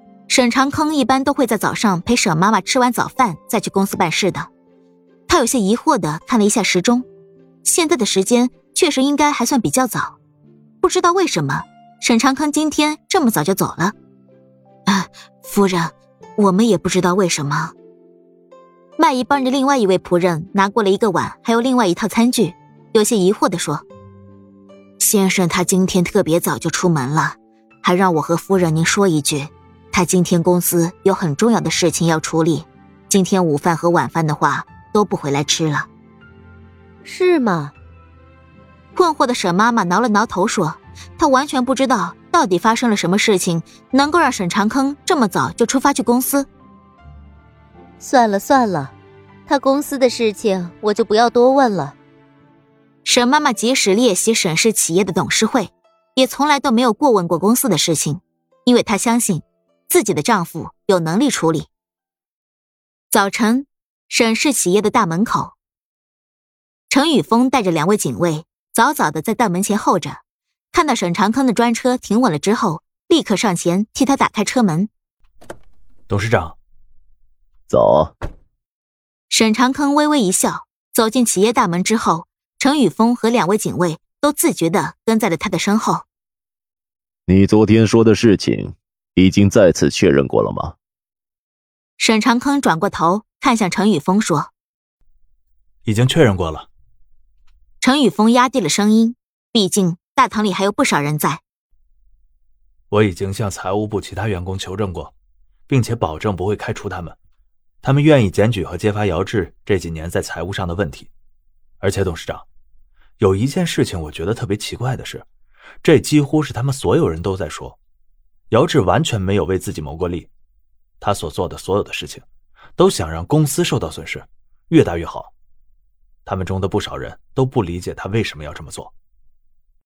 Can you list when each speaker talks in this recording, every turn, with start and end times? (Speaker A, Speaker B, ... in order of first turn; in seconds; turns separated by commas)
Speaker A: 0.3-4.5, Speaker A: 5.3-7.0, Speaker A: 7.6-10.2, Speaker A: 10.8-13.9, Speaker A: 14.9-17.7, Speaker A: 19.0-23.9, Speaker A: 25.0-35.9, Speaker B: 37.0-37.7, Speaker A: 39.0-46.5, Speaker B: 48.0-48.9, Speaker B: 49.5-52.0, Speaker A: 53.0-61.7, Speaker A: 63.1-65.5, Speaker A: 66.9-74.9, Speaker C: 76.1-76.6, Speaker D: 77.7-78.1, Speaker A: 79.3-86.0, Speaker D: 87.3-90.8, Speaker A: 92.0-94.5, Speaker C: 95.8-96.7, Speaker A: 97.8-101.4, Speaker C: 102.9-105.1, Speaker C: 105.7-107.2, Speaker C: 107.8-111.1, Speaker C: 111.8-112.5, Speaker C: 113.2-115.2, Speaker C: 115.8-117.8, Speaker C: 118.5-120.3, Speaker C: 121.0-122.2, Speaker C: 122.8-125.3, Speaker C: 126.3-128.9